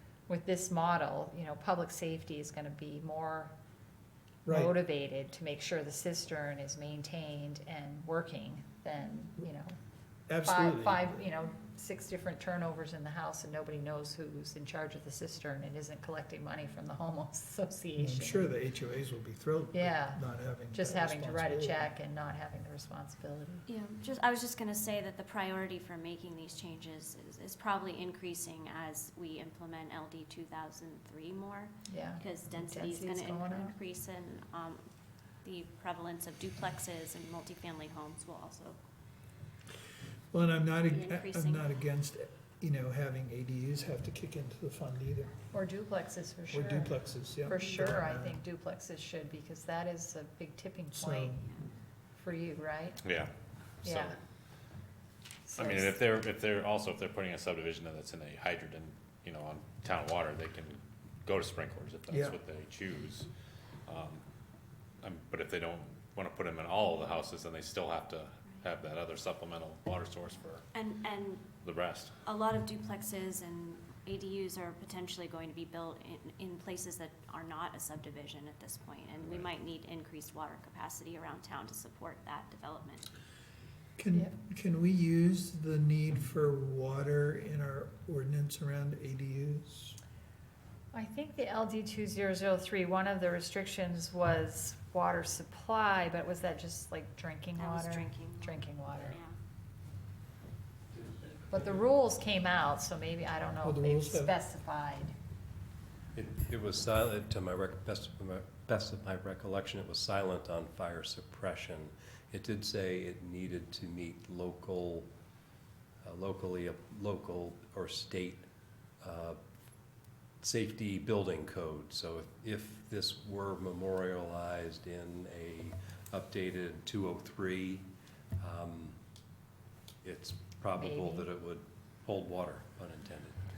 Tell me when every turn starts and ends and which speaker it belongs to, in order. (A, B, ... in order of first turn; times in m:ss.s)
0:00.3-0:03.5 A
0:04.4-0:04.8 B
0:04.5-0:09.8 A
0:10.3-0:11.2 B
0:10.4-0:18.5 A
0:18.0-0:21.9 B
0:19.7-0:20.2 A
0:20.7-0:23.6 A
0:23.7-0:34.8 C
0:31.9-0:33.8 A
0:35.4-0:38.8 C
0:40.3-0:45.4 B
0:40.8-0:41.7 C
0:45.5-0:51.4 A
0:46.5-0:48.4 B
0:50.9-0:51.4 B
0:52.1-0:53.0 A
0:53.0-0:53.3 D
0:53.8-0:54.1 D
0:53.8-0:54.2 A
0:55.4-0:55.9 A
0:55.6-1:03.3 D
1:02.1-1:02.4 B
1:03.8-1:04.2 D
1:05.0-1:10.6 D
1:10.7-1:11.6 C
1:11.6-1:12.2 D
1:12.2-1:23.0 C
1:19.2-1:19.5 D
1:24.0-1:30.0 B
1:30.9-1:39.2 A
1:37.6-1:39.3 C
1:41.5-1:45.1 A
1:43.6-1:44.3 B
1:46.1-1:55.1 E
1:56.0-1:58.5 E
1:59.0-1:59.4 E
2:00.4-2:07.9 E
2:08.4-2:09.0 E
2:10.0-2:13.4 E
2:10.8-2:11.3 A